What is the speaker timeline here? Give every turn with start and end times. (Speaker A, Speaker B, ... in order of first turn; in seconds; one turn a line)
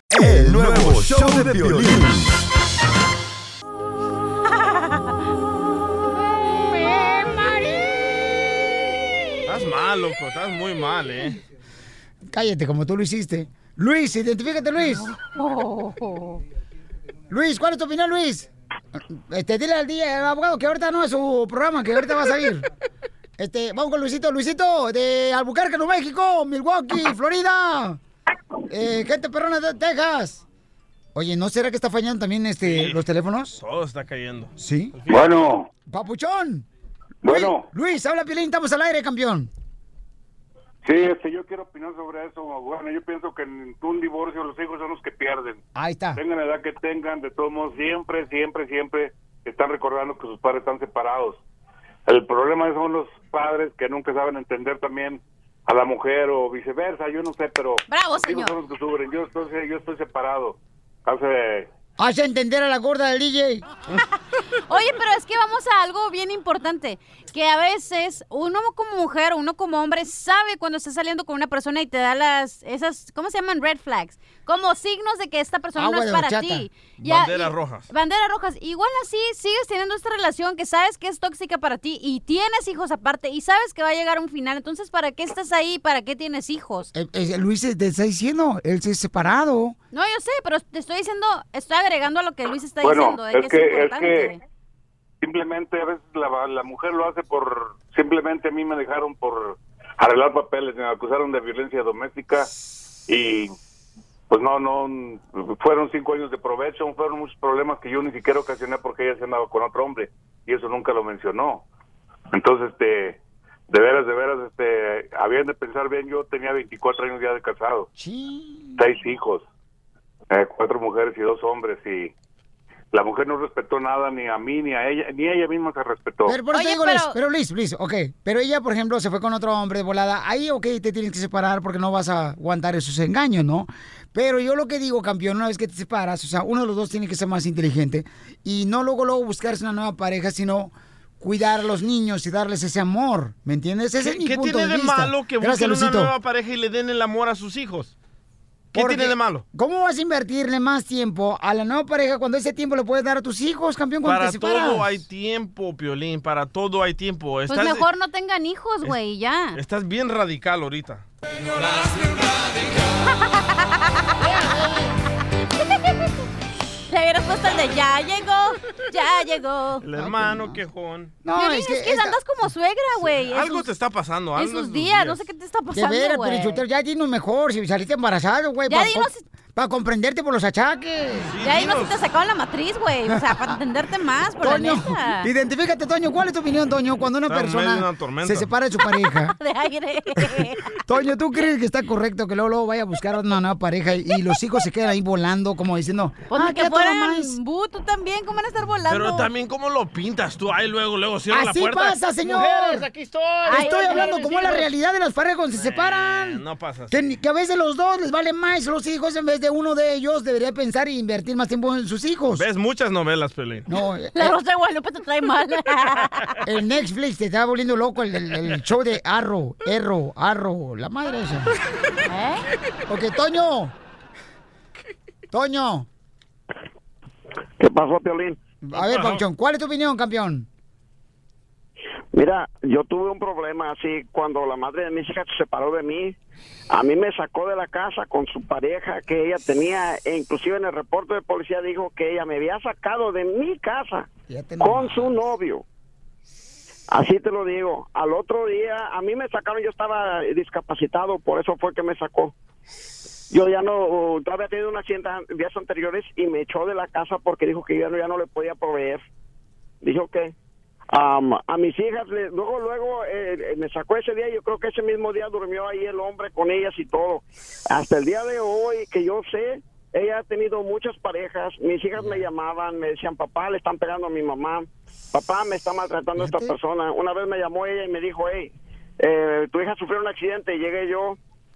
Speaker A: 0.1-2.4
Speaker B: 6.5-7.8
Speaker C: 9.5-11.4
Speaker B: 12.3-15.1
Speaker D: 15.0-16.4
Speaker B: 17.3-18.5
Speaker B: 19.1-22.7
Speaker B: 23.4-28.0
Speaker B: 28.7-30.4
Speaker B: 31.1-33.6
Speaker C: 32.6-33.0
Speaker C: 33.5-35.4
Speaker B: 34.6-35.0
Speaker E: 35.1-35.7
Speaker B: 35.9-36.6
Speaker E: 37.2-37.7
Speaker B: 37.2-39.5
Speaker E: 40.8-45.6
Speaker B: 45.7-46.2
Speaker E: 46.1-51.4
Speaker E: 52.0-61.7
Speaker D: 57.9-58.5
Speaker B: 62.0-63.6
Speaker D: 64.7-86.9
Speaker B: 75.8-76.7
Speaker C: 77.0-77.9
Speaker B: 86.9-89.8
Speaker D: 89.9-94.4
Speaker E: 92.8-94.3
Speaker E: 95.2-102.5
Speaker E: 103.1-103.5
Speaker E: 104.3-111.7
Speaker E: 112.3-117.9
Speaker B: 118.0-118.8
Speaker E: 118.8-119.4
Speaker E: 120.3-122.1
Speaker E: 122.9-126.4
Speaker B: 126.2-146.1
Speaker D: 126.5-127.1
Speaker C: 144.0-147.9
Speaker C: 148.7-149.4
Speaker B: 148.7-155.0
Speaker C: 154.0-157.8
Speaker D: 157.5-159.6
Speaker C: 159.5-161.0
Speaker B: 164.2-164.9
Speaker D: 166.9-169.8
Speaker C: 169.8-171.1
Speaker B: 170.0-170.6
Speaker B: 171.2-172.2
Speaker D: 171.3-173.7
Speaker C: 173.2-175.2
Speaker D: 174.3-176.6
Speaker B: 175.7-181.3
Speaker D: 178.7-179.2
Speaker C: 181.2-181.9
Speaker D: 181.4-185.3
Speaker B: 184.4-189.3
Speaker C: 187.3-188.5
Speaker D: 189.0-190.7
Speaker B: 190.8-197.3
Speaker D: 196.3-199.3
Speaker C: 198.9-204.6
Speaker B: 201.3-202.9
Speaker D: 203.4-204.7
Speaker B: 203.5-212.4
Speaker C: 205.5-206.9
Speaker C: 212.3-213.7
Speaker B: 213.7-214.4
Speaker D: 214.1-216.4
Speaker B: 216.4-221.5
Speaker D: 222.1-222.4
Speaker B: 222.9-223.7
Speaker B: 225.3-225.9
Speaker F: 227.6-228.4
Speaker B: 228.6-230.5
Speaker C: 228.7-229.2
Speaker F: 232.1-236.2
Speaker F: 236.7-244.1
Speaker B: 244.3-245.1
Speaker F: 244.6-245.6
Speaker F: 246.9-252.3
Speaker F: 253.3-259.0
Speaker F: 259.8-260.3
Speaker F: 260.9-281.2
Speaker B: 276.2-276.5